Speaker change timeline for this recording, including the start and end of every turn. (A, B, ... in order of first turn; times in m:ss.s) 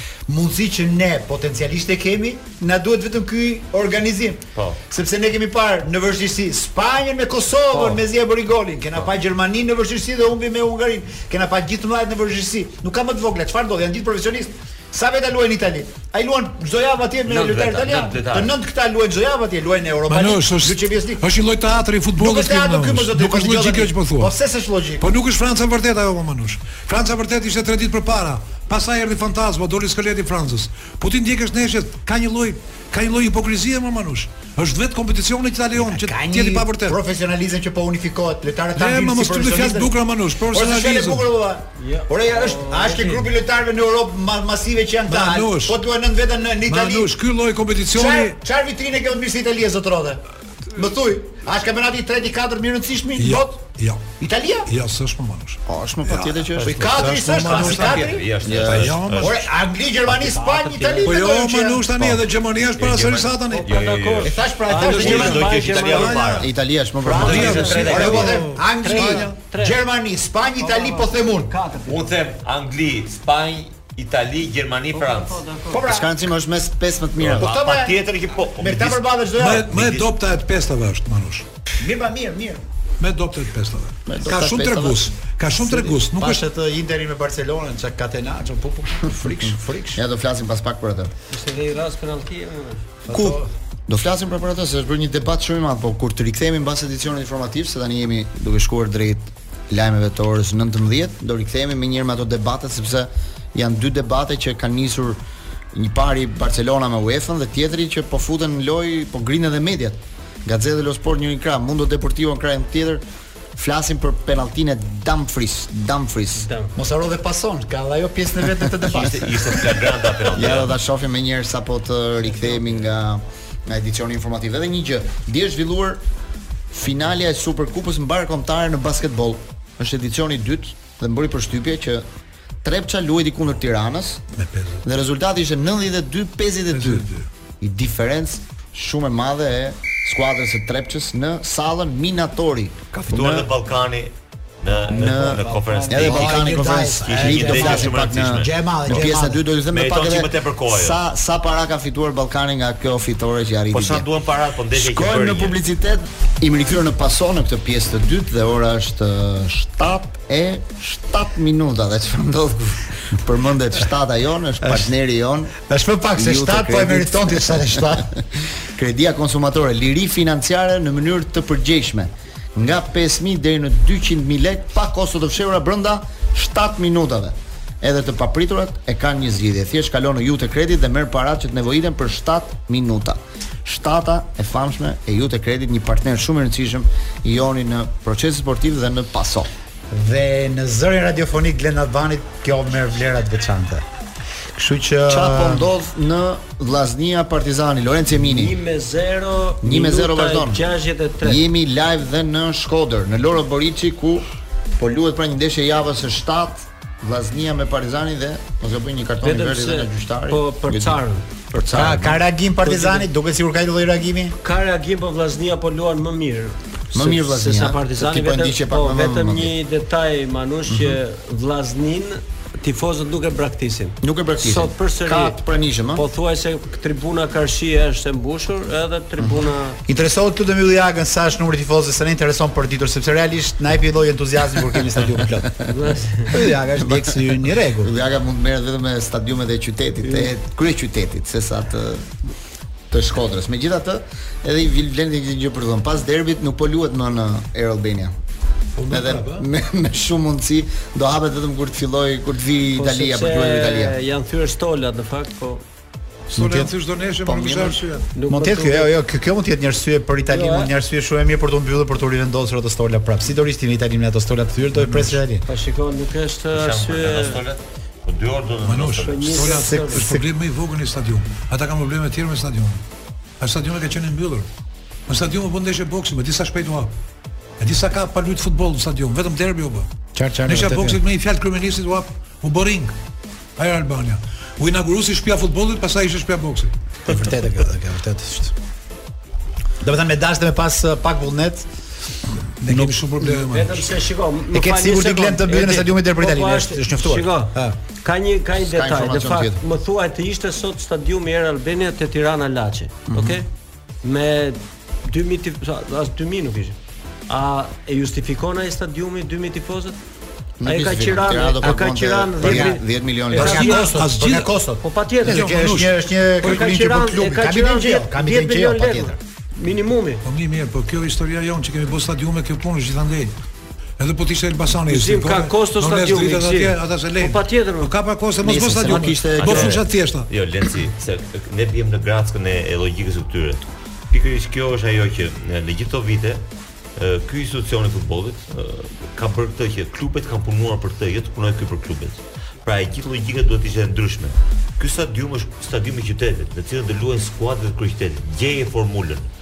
0:00.3-0:21.2 A
0:07.7-0:08.0 B
0:17.2-0:18.5 B
0:20.1-0:24.3 C
0:22.2-0:25.1 A
0:25.0-0:37.0 C
0:35.8-0:47.1 A
0:38.7-0:41.2 C
0:41.8-0:43.3 D
0:45.1-0:45.8 C
0:46.7-0:48.4 C
0:47.9-0:53.6 A
0:53.2-0:54.1 C
0:54.2-0:54.7 A
0:54.7-0:59.5 C
0:55.7-0:56.8 E
0:56.6-0:56.8 B
0:56.6-0:58.3 A
0:57.4-0:59.4 B
0:58.4-0:59.0 E
0:59.2-1:02.0 A
1:00.1-1:01.2 D
1:01.0-1:03.7 C
1:02.8-1:06.5 B
1:03.5-1:06.4 D
1:04.2-1:05.4 A
1:04.7-1:06.4 C
1:06.4-1:07.9 E
1:07.0-1:08.4 B
1:07.1-1:09.4 C
1:07.2-1:09.8 D
1:07.6-1:11.5 A
1:10.6-1:12.2 D
1:11.9-1:15.4 B
1:14.9-1:15.8 D
1:15.7-1:16.1 A
1:15.8-1:17.5 E
1:17.2-1:19.0 B
1:17.4-1:18.0 A
1:18.6-1:19.7 A
1:19.4-1:21.4 C
1:19.7-1:20.1 B
1:21.8-1:22.6 A
1:23.0-1:26.4 C
1:24.1-1:25.1 E
1:25.6-1:30.0 A
1:29.9-1:31.1 E
1:31.3-1:32.8 D
1:33.0-1:33.5 A
1:33.1-1:45.2 E
1:45.7-1:53.0 E
1:53.6-1:56.5 E
1:56.4-1:56.7 D
1:56.8-1:59.7 A
1:58.9-2:00.7 B
2:00.3-2:06.0 E
2:06.7-2:12.0 E
2:12.6-2:14.2 E
2:14.4-2:14.8 C
2:14.8-2:17.1 E
2:16.7-2:17.2 C
2:17.6-2:23.5 E
2:23.1-2:29.1 B
2:24.9-2:34.0 E
2:24.9-2:29.4 A
2:25.4-2:25.8 D
2:29.7-2:31.0 B
2:33.7-2:35.6 B
2:34.7-2:45.5 E
2:45.6-2:48.1 A
2:46.2-2:48.2 E
2:48.8-3:09.5 E
3:09.9-3:13.8 A
3:14.5-3:15.7 A
3:15.1-3:18.6 E
3:18.1-3:21.4 D
3:19.6-3:20.7 E
3:21.2-3:24.3 E
3:24.8-3:31.0 E
3:29.2-3:32.0 D
3:31.5-3:32.2 E
3:31.7-3:34.4 A
3:32.6-3:33.1 D
3:34.4-3:45.4 D
3:36.9-3:39.5 E
3:40.7-3:41.0 E
3:44.0-3:46.0 E
3:45.9-3:49.8 D
3:49.2-3:49.5 E
3:49.9-3:55.6 A
3:55.7-3:56.4 D
3:56.3-3:57.9 A
3:56.9-3:57.1 E
3:57.8-4:02.1 E
4:00.0-4:00.3 D
4:02.9-4:08.1 E
4:08.8-4:09.5 C
4:08.9-4:14.0 E
4:12.7-4:15.6 D
4:16.3-4:18.1 C
4:16.3-4:16.7 A
4:17.2-4:17.8 E
4:18.1-4:18.9 D
4:18.3-4:25.4 A
4:20.3-4:20.7 D
4:24.8-4:25.2 C
4:25.4-4:27.4 D
4:26.5-4:29.5 B
4:28.6-4:32.8 C
4:29.0-4:30.0 D
4:29.7-4:30.2 A
4:33.4-4:34.5 C
4:35.1-4:36.9 C
4:37.6-4:39.9 C
4:40.1-4:41.0 A
4:40.4-4:43.0 C
4:43.6-4:46.7 C
4:47.0-4:48.5 A
4:49.8-4:51.7 A
4:52.6-4:53.9 C
4:52.7-4:53.3 A
4:53.3-5:03.4 D
4:54.5-4:57.8 A
4:58.6-4:59.6 E
5:03.1-5:03.4 E
5:04.0-5:06.8 D
5:07.3-5:10.0 D
5:10.6-5:13.7 E
5:10.6-5:13.9 D
5:12.4-5:12.8 A
5:13.3-5:19.2 A
5:13.4-5:14.5 C
5:14.8-5:15.5 D
5:15.2-5:16.6 C
5:16.4-5:20.2 D
5:20.2-5:23.3 C
5:24.0-5:30.3 C
5:24.8-5:27.9 D
5:28.4-5:29.8 E
5:29.4-5:36.4 B
5:37.0-5:49.3 B